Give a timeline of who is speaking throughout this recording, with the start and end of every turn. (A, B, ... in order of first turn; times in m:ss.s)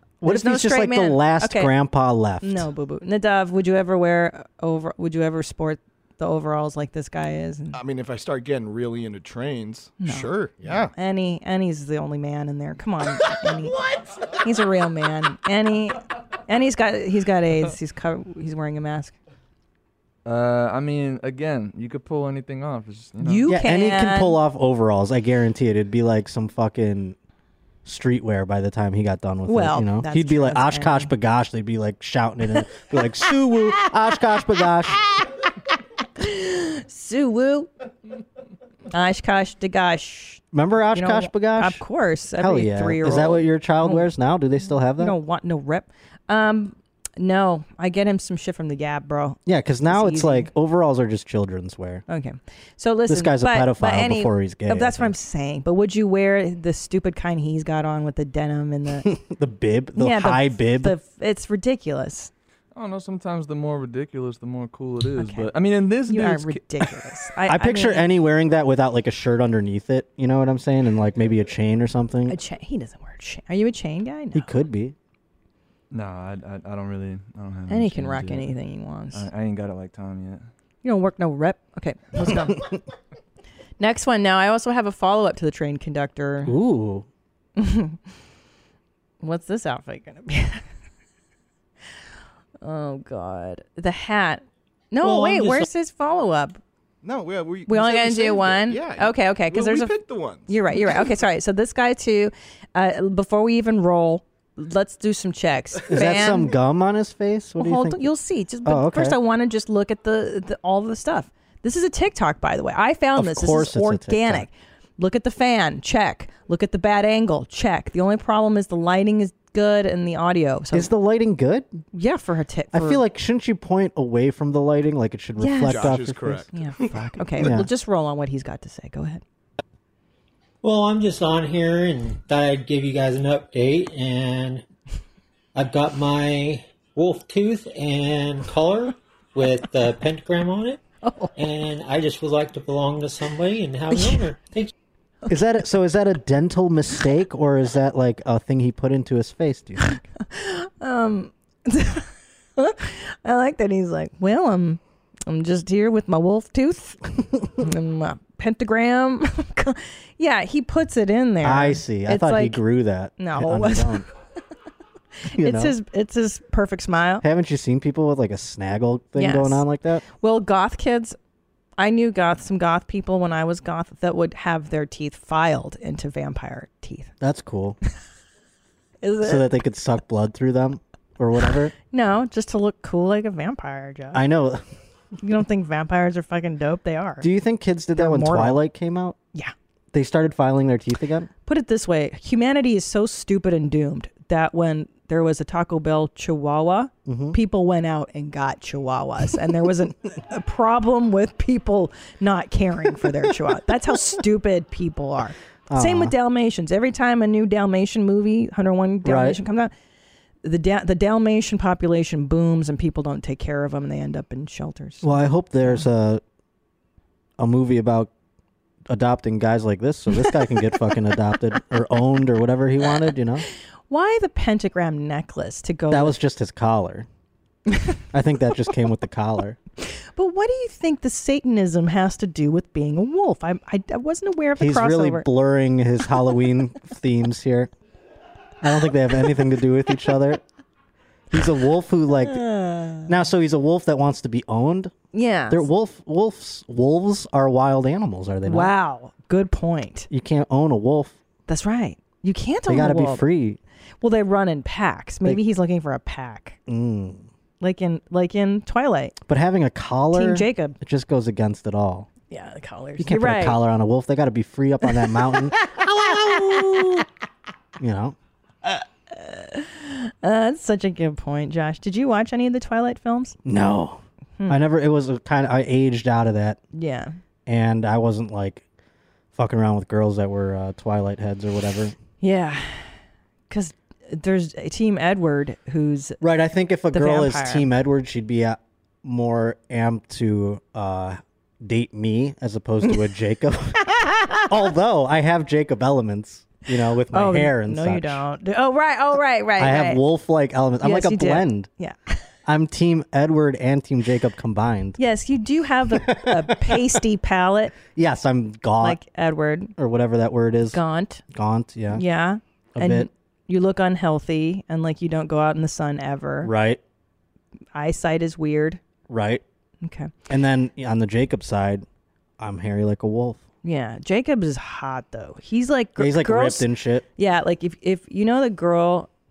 0:00.2-0:02.7 A
0:00.3-0:01.7 B
0:02.4-0:07.8 B
0:07.7-0:10.9 C
0:10.0-0:13.8 B
0:14.4-0:19.2 B
0:20.2-0:23.5 D
0:23.2-0:24.4 B
0:23.5-0:27.2 A
0:27.8-0:35.0 A
0:29.5-0:31.1 B
0:36.2-0:37.7 B
0:38.9-0:40.4 B
0:40.5-0:41.8 A
0:40.9-0:44.1 B
0:42.4-0:45.2 A
0:45.0-0:50.5 B
0:49.5-0:52.0 A
0:52.1-0:59.1 B
0:53.1-0:55.1 A
0:59.0-1:01.0 A
1:00.0-1:02.3 B
1:02.8-1:06.6 D
1:05.2-1:05.5 B
1:06.1-1:08.1 B
1:07.4-1:12.4 A
1:12.3-1:14.5 B
1:14.3-1:15.0 A
1:15.9-1:18.5 D
1:17.7-1:19.3 B
1:19.1-1:20.5 D
1:20.8-1:22.6 B
1:23.8-1:26.5 B
1:26.4-1:27.1 A
1:27.6-1:28.0 B
1:29.2-1:30.6 B
1:32.6-1:36.6 B
1:35.0-1:35.7 E
1:37.0-1:41.0 C
1:37.7-1:40.0 B
1:40.5-1:46.5 B
1:45.9-1:48.1 A
1:47.6-2:00.9 B
1:48.6-1:49.2 A
1:53.2-1:54.5 A
2:00.7-2:01.8 A
2:01.9-2:03.0 B
2:02.7-2:06.5 A
2:05.4-2:09.2 B
2:05.7-2:07.0 C
2:07.4-2:07.7 A
2:10.6-2:14.6 E
2:15.6-2:20.8 E
2:21.0-2:21.3 B
2:21.4-2:24.7 E
2:23.9-2:24.3 B
2:25.3-2:30.0 A
2:30.2-2:37.0 B
2:37.6-2:42.6 B
2:41.4-2:44.1 A
2:43.2-2:44.0 B
2:45.3-2:45.8 A
2:45.4-2:47.2 B
2:47.2-2:50.0 A
2:49.2-2:49.6 B
2:50.2-2:51.2 B
2:51.8-2:57.1 B
2:57.2-2:57.8 A
2:59.0-2:59.4 B
2:59.2-3:01.7 A
3:01.9-3:04.2 B
3:04.1-3:04.6 A
3:05.2-3:07.3 B
3:07.2-3:09.2 A
3:08.0-3:08.6 B
3:09.9-3:11.3 A
3:11.5-3:29.7 B
3:17.1-3:17.4 A
3:25.7-3:26.1 A
3:29.0-3:29.4 A
3:30.4-3:35.1 B
3:35.0-3:36.2 A
3:37.4-3:38.1 A
3:38.9-3:43.4 A
3:43.9-3:46.2 B
3:45.9-3:47.1 A
3:48.1-3:49.6 A
3:49.8-3:55.3 B
3:54.6-3:57.7 A
3:58.6-4:00.4 A
4:01.3-4:02.4 A
4:02.2-4:03.2 B
4:03.1-4:04.9 A
4:05.1-4:05.7 B
4:05.5-4:08.7 A
4:08.5-4:10.1 B
4:10.1-4:11.2 A
4:11.5-4:13.2 B
4:12.7-4:13.6 A
4:14.0-4:16.6 B
4:16.7-4:17.3 A
4:17.6-4:19.2 B
4:19.2-4:22.1 A
4:20.1-4:20.8 B
4:22.3-4:23.6 B
4:23.0-4:27.0 A
4:26.3-4:27.0 B
4:27.8-4:28.2 A
4:29.1-4:33.4 B
4:33.4-4:36.6 A
4:36.7-4:37.2 B
4:37.5-4:38.6 A
4:39.3-4:42.0 A
4:42.2-4:42.9 B
4:43.5-4:46.2 B
4:46.2-4:53.9 A
4:46.9-4:47.7 B
4:54.5-4:58.2 A
4:57.1-5:00.0 B
4:59.6-5:01.7 A
5:00.8-5:02.2 B
5:02.5-5:05.0 A
5:05.0-5:07.8 B
5:05.9-5:07.0 A
5:07.9-5:09.0 A
5:08.8-5:09.7 B
5:09.8-5:10.8 A
5:10.7-5:11.2 B
5:11.3-5:12.0 A
5:11.9-5:16.5 B
5:12.8-5:13.1 A
5:16.4-5:16.8 A
5:17.8-5:18.8 B
5:19.1-5:19.4 A
5:19.8-5:20.1 B
5:20.3-5:21.9 A
5:22.4-5:23.4 A
5:23.6-5:29.1 B
5:26.0-5:27.1 A